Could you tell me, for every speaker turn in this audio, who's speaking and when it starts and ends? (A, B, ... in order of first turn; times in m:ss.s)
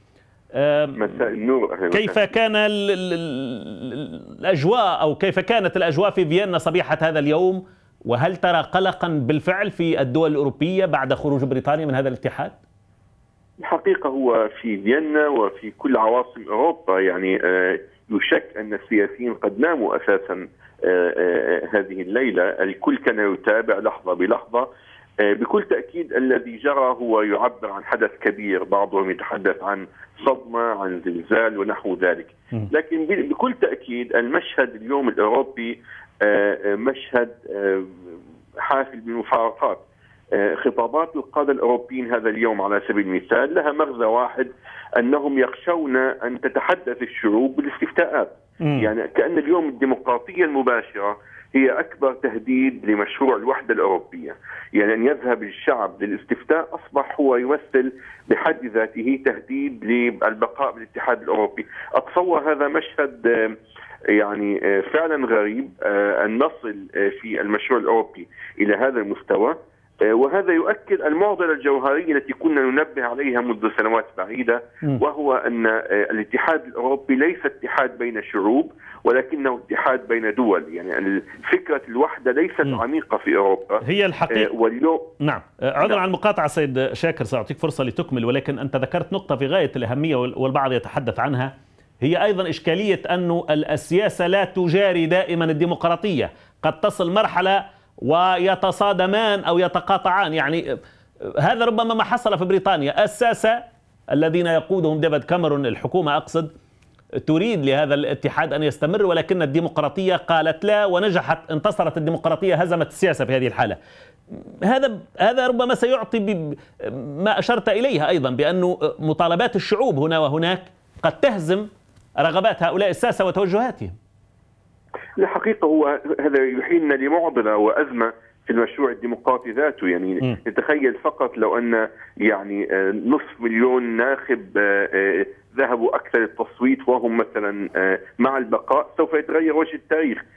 0:00.5-0:01.1 A
0:01.0-0:02.2 B
0:01.9-0:12.6 A
0:13.6-0:24.7 B
0:25.2-0:39.8 B
0:40.4-1:03.6 B
1:04.1-1:25.1 B
1:23.8-1:24.5 A
1:25.2-1:46.5 A
1:47.2-1:53.8 A
1:54.4-2:01.7 A
2:02.2-2:03.9 A
2:05.2-2:20.2 B